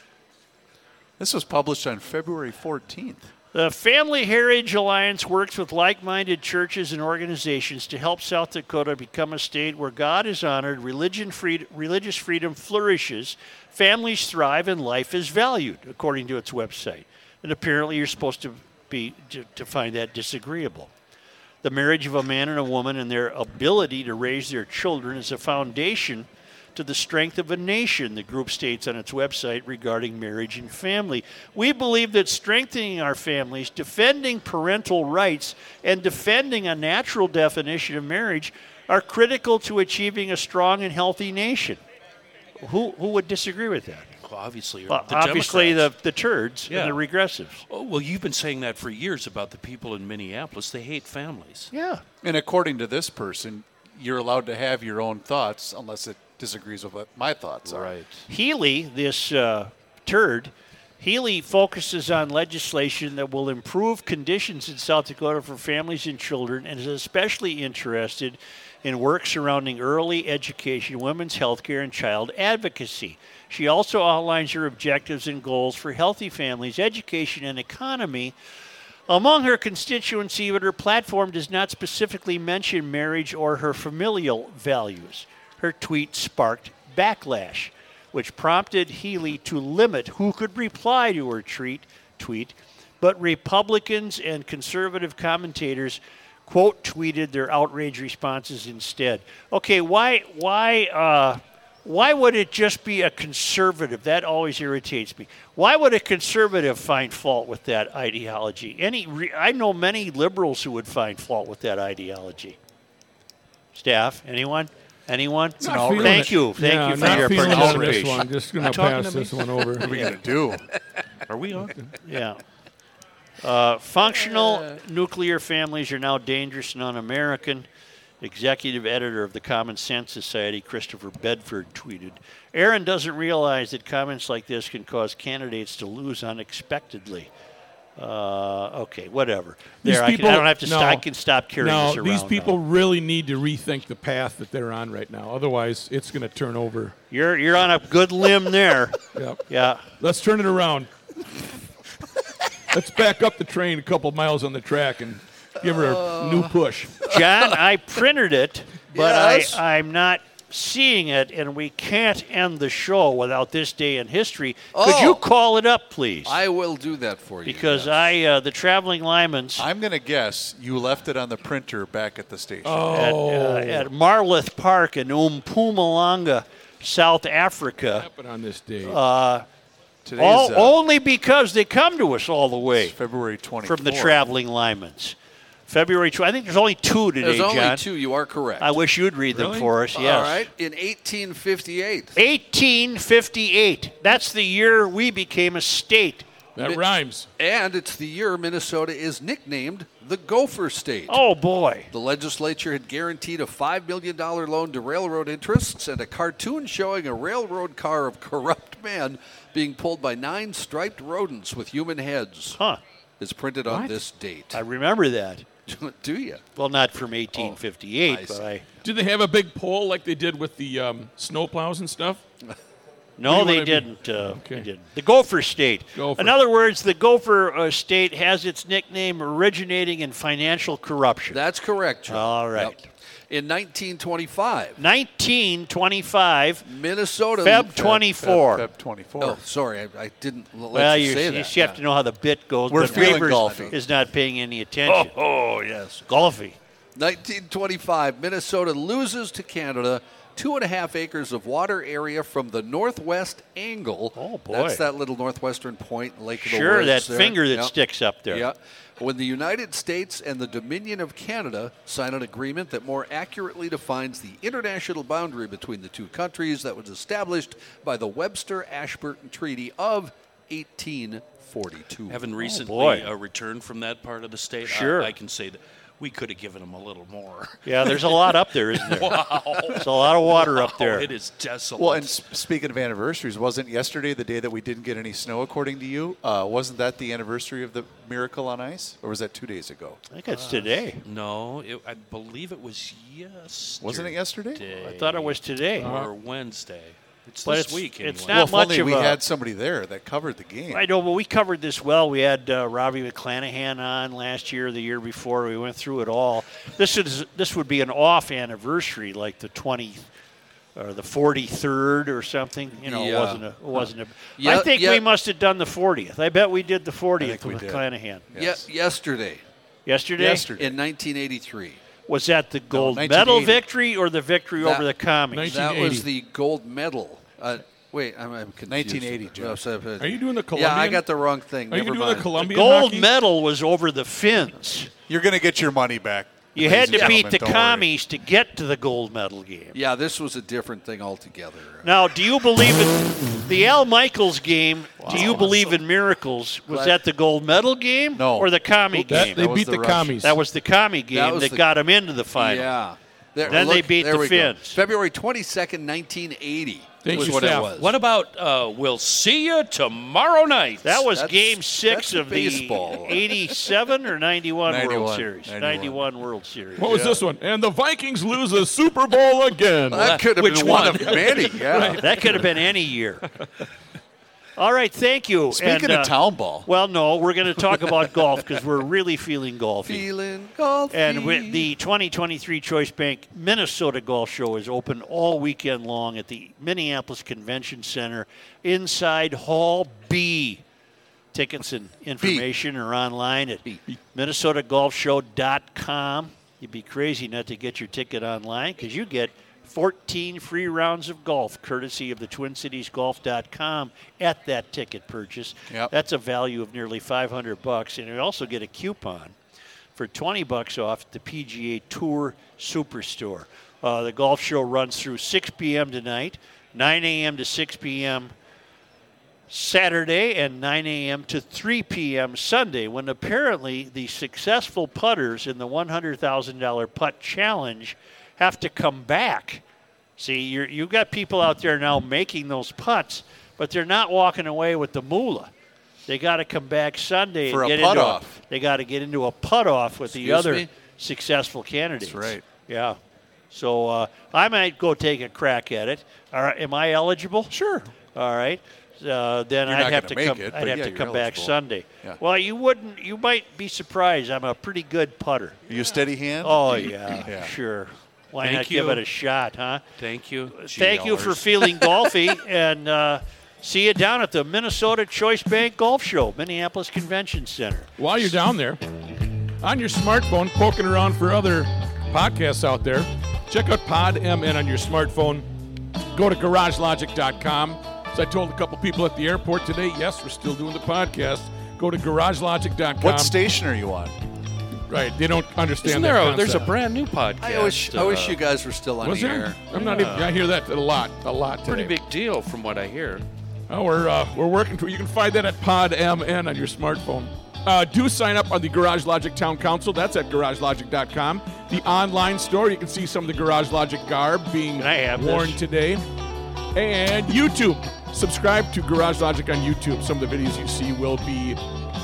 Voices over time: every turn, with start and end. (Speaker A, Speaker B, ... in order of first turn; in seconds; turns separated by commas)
Speaker A: 1.2-3.3, Speaker B: 3.5-20.9, Speaker B: 21.6-41.8, Speaker B: 42.6-44.1, Speaker C: 44.2-45.9, Speaker B: 44.9-47.6, Speaker C: 46.7-47.0, Speaker C: 47.7-51.7, Speaker B: 51.7-52.0, Speaker A: 52.2-57.9, Speaker C: 57.6-58.2, Speaker B: 58.3-78.3, Speaker B: 79.1-112.6, Speaker B: 113.7-118.3, Speaker A: 115.6-118.2, Speaker D: 115.6-120.0, Speaker C: 118.6-120.1, Speaker A: 119.8-120.7, Speaker C: 121.2-121.9, Speaker B: 122.0-122.4, Speaker B: 123.4-127.7, Speaker B: 128.2-137.3, Speaker B: 138.0-142.6, Speaker D: 139.8-141.1, Speaker D: 141.6-146.9, Speaker B: 147.1-149.8, Speaker D: 149.1-149.4, Speaker D: 150.0-150.9, Speaker D: 152.7-157.0, Speaker E: 156.0-156.4, Speaker B: 157.0-166.4, Speaker E: 157.1-157.4, Speaker E: 158.9-159.6, Speaker E: 164.7-165.2, Speaker E: 166.2-168.1, Speaker B: 167.4-169.7, Speaker A: 169.6-172.9, Speaker D: 172.6-173.9, Speaker B: 172.9-178.1, Speaker D: 177.9-179.0, Speaker B: 178.8-179.4, Speaker A: 180.0-180.8, Speaker B: 180.2-182.9, Speaker A: 182.8-184.2, Speaker B: 183.6-185.2, Speaker B: 185.7-187.8, Speaker E: 187.2-188.8, Speaker B: 188.6-190.5, Speaker D: 189.3-189.7, Speaker E: 189.9-192.2, Speaker B: 192.1-196.3, Speaker D: 196.6-197.3, Speaker E: 196.6-196.8, Speaker E: 197.4-201.2, Speaker B: 201.1-201.9, Speaker E: 201.9-212.6, Speaker B: 212.5-212.8, Speaker E: 213.2-214.6, Speaker D: 213.7-214.0, Speaker B: 214.5-215.5, Speaker E: 215.7-216.4, Speaker B: 216.5-218.6, Speaker E: 217.3-218.4, Speaker D: 218.8-222.2, Speaker B: 223.2-231.4, Speaker D: 223.2-224.7, Speaker D: 225.9-226.3, Speaker E: 231.3-234.8, Speaker B: 232.1-232.8, Speaker B: 234.8-236.6, Speaker E: 236.6-238.1, Speaker B: 237.4-238.7, Speaker A: 238.2-239.4, Speaker E: 239.2-241.8, Speaker B: 240.7-245.2, Speaker A: 242.7-243.7, Speaker E: 242.8-243.8, Speaker E: 244.9-246.1, Speaker B: 246.1-246.6, Speaker E: 246.9-257.7, Speaker B: 254.1-254.8, Speaker B: 256.4-258.5, Speaker E: 258.3-272.2, Speaker C: 272.1-282.2, Speaker B: 272.4-273.1, Speaker B: 274.6-275.1, Speaker B: 277.6-281.1, Speaker A: 281.8-290.0, Speaker B: 290.1-291.0, Speaker C: 290.4-298.5, Speaker A: 293.8-294.6, Speaker B: 294.7-295.9, Speaker D: 295.8-296.1, Speaker B: 297.4-299.2, Speaker A: 298.3-300.9, Speaker B: 300.7-310.1, Speaker B: 310.8-318.3, Speaker E: 312.8-313.9, Speaker E: 314.4-315.0, Speaker A: 317.2-318.7, Speaker E: 318.3-319.4, Speaker B: 319.9-320.5, Speaker A: 320.2-320.8, Speaker E: 320.6-321.8, Speaker B: 322.1-325.6, Speaker A: 322.7-323.6, Speaker E: 324.6-324.9, Speaker D: 325.3-326.1, Speaker E: 325.4-332.3, Speaker A: 328.7-329.6, Speaker D: 330.0-331.1, Speaker D: 331.7-333.1, Speaker B: 332.4-334.9, Speaker A: 335.1-337.9, Speaker B: 336.5-339.8, Speaker E: 339.7-341.9, Speaker B: 341.8-349.5, Speaker A: 345.0-345.5, Speaker E: 346.7-346.9, Speaker A: 348.1-350.2, Speaker D: 349.1-350.4, Speaker B: 350.2-352.7, Speaker E: 351.1-351.7, Speaker E: 352.3-357.9, Speaker B: 353.5-354.8, Speaker D: 357.0-357.7, Speaker C: 357.1-361.1, Speaker B: 360.8-367.1, Speaker E: 361.1-363.4, Speaker A: 364.6-366.0, Speaker D: 366.8-372.4, Speaker A: 366.9-367.2, Speaker E: 369.9-372.4, Speaker A: 370.5-371.9, Speaker B: 372.0-373.3, Speaker B: 374.6-380.1, Speaker A: 375.5-376.7, Speaker E: 379.9-381.7, Speaker B: 380.9-390.6, Speaker B: 391.3-409.3, Speaker B: 409.9-418.3, Speaker B: 419.5-429.6, Speaker B: 430.2-435.5, Speaker B: 436.1-443.0, Speaker A: 437.5-438.4, Speaker E: 440.1-440.7, Speaker A: 442.0-442.4, Speaker B: 443.5-447.5, Speaker A: 447.5-447.9, Speaker B: 448.1-455.6, Speaker A: 449.6-452.2, Speaker A: 455.7-457.5, Speaker B: 456.4-459.8, Speaker C: 458.4-459.0, Speaker C: 460.0-462.1, Speaker B: 460.5-467.9, Speaker D: 468.0-468.8, Speaker D: 469.6-475.5, Speaker D: 476.1-483.4, Speaker A: 483.0-484.1, Speaker D: 484.9-486.7, Speaker C: 485.8-488.4, Speaker E: 487.4-490.1, Speaker D: 489.0-491.9, Speaker C: 489.7-490.3, Speaker C: 491.6-493.2, Speaker D: 493.7-506.0, Speaker B: 504.8-505.6, Speaker D: 506.7-511.6